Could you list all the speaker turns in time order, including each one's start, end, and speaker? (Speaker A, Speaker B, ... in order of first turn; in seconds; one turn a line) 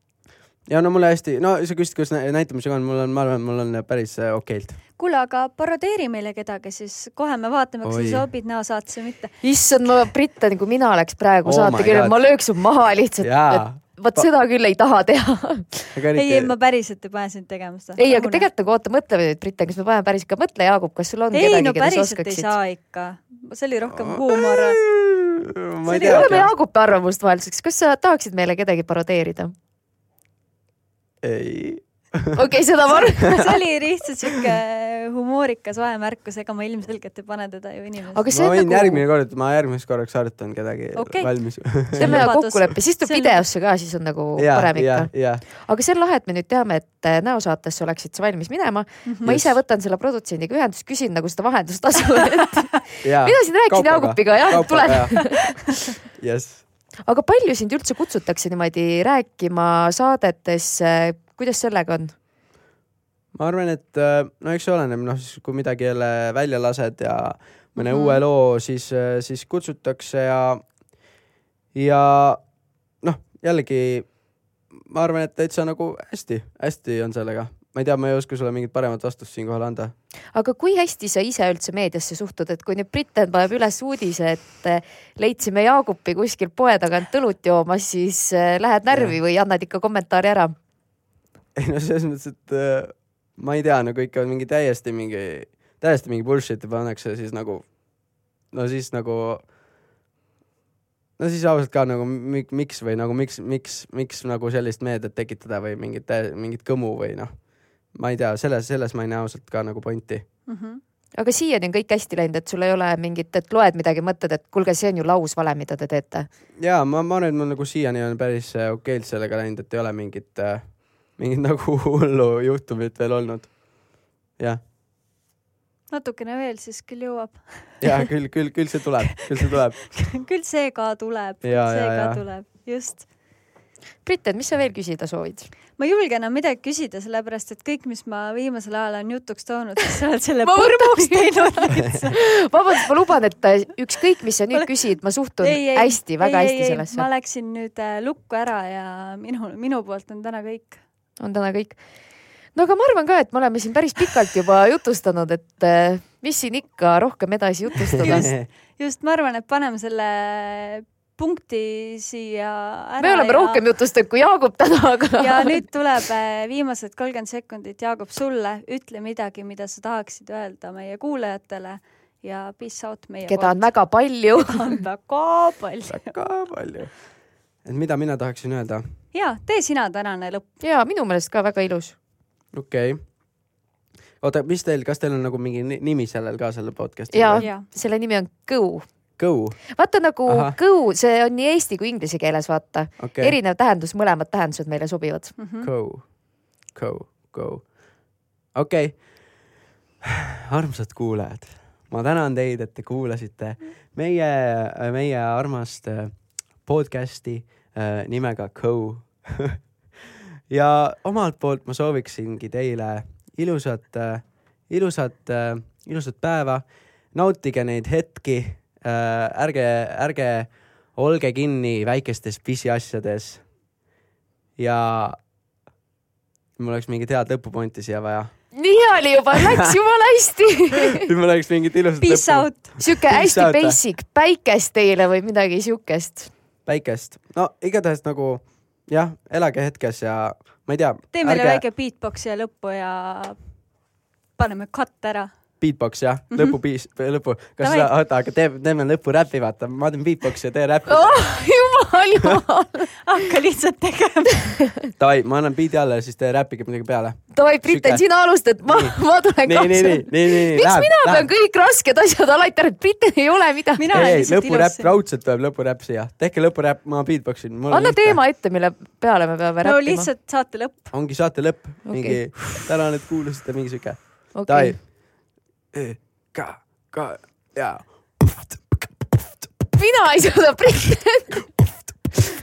Speaker A: 0.7-4.8
Speaker B: 5.0-9.4
Speaker A: 7.8-8.2
Speaker C: 9.4-16.0
Speaker A: 11.4-12.2
Speaker A: 13.2-14.3
Speaker A: 15.9-16.5
Speaker B: 16.1-18.5
Speaker C: 18.0-22.5
Speaker B: 21.3-24.9
Speaker A: 23.9-26.5
Speaker B: 25.8-26.4
Speaker C: 26.0-29.5
Speaker A: 31.2-32.4
Speaker C: 32.3-33.5
Speaker B: 32.9-38.2
Speaker A: 34.2-34.5
Speaker C: 38.1-39.0
Speaker A: 38.3-42.3
Speaker B: 41.0-43.4
Speaker C: 42.0-55.6
Speaker A: 44.4-45.4
Speaker B: 49.0-49.3
Speaker A: 49.2-49.6
Speaker A: 53.0-55.6
Speaker A: 56.2-56.6
Speaker C: 57.0-62.1
Speaker A: 63.3-70.6
Speaker B: 67.8-68.2
Speaker A: 71.7-72.4
Speaker A: 73.0-74.1
Speaker A: 74.7-79.9
Speaker C: 80.3-90.5
Speaker A: 88.9-89.2
Speaker A: 91.5-97.7
Speaker A: 98.5-99.4
Speaker A: 101.2-110.2
Speaker B: 110.5-110.8
Speaker C: 111.2-116.3
Speaker A: 116.6-124.6
Speaker B: 125.9-128.1
Speaker A: 127.8-129.9
Speaker B: 129.4-133.1
Speaker A: 131.4-132.2
Speaker C: 134.0-135.5
Speaker B: 135.8-142.9
Speaker C: 140.4-147.1
Speaker B: 144.5-150.8
Speaker C: 151.2-151.8
Speaker C: 152.5-158.3
Speaker B: 158.0-163.6
Speaker A: 158.0-158.4
Speaker C: 163.0-165.6
Speaker B: 165.2-176.2
Speaker C: 173.3-174.7
Speaker A: 175.9-177.0
Speaker A: 177.6-178.8
Speaker B: 179.1-180.4
Speaker C: 180.6-181.9
Speaker A: 182.5-183.0
Speaker A: 184.2-187.5
Speaker C: 187.1-188.9
Speaker B: 187.4-187.7
Speaker A: 189.2-189.6
Speaker C: 189.7-195.3
Speaker A: 190.2-190.6
Speaker A: 193.0-193.3
Speaker B: 195.4-195.7
Speaker A: 195.6-197.8
Speaker A: 198.5-199.4
Speaker A: 200.0-223.4
Speaker A: 224.6-225.2
Speaker A: 226.6-228.3
Speaker C: 228.5-231.1
Speaker A: 229.4-229.8
Speaker A: 230.9-233.8
Speaker B: 232.0-232.9
Speaker C: 232.8-236.3
Speaker A: 236.7-241.6
Speaker B: 241.1-243.4
Speaker B: 244.4-245.3
Speaker A: 245.6-251.4
Speaker B: 246.3-246.6
Speaker B: 247.6-247.9
Speaker C: 250.9-252.9
Speaker B: 253.1-254.6
Speaker A: 255.0-258.0
Speaker C: 257.3-264.1
Speaker A: 258.6-261.3
Speaker B: 263.8-264.9
Speaker A: 263.9-268.2
Speaker C: 267.7-270.1
Speaker B: 269.6-270.9
Speaker A: 270.9-279.5
Speaker C: 271.9-272.4
Speaker C: 274.3-274.8
Speaker C: 279.8-281.5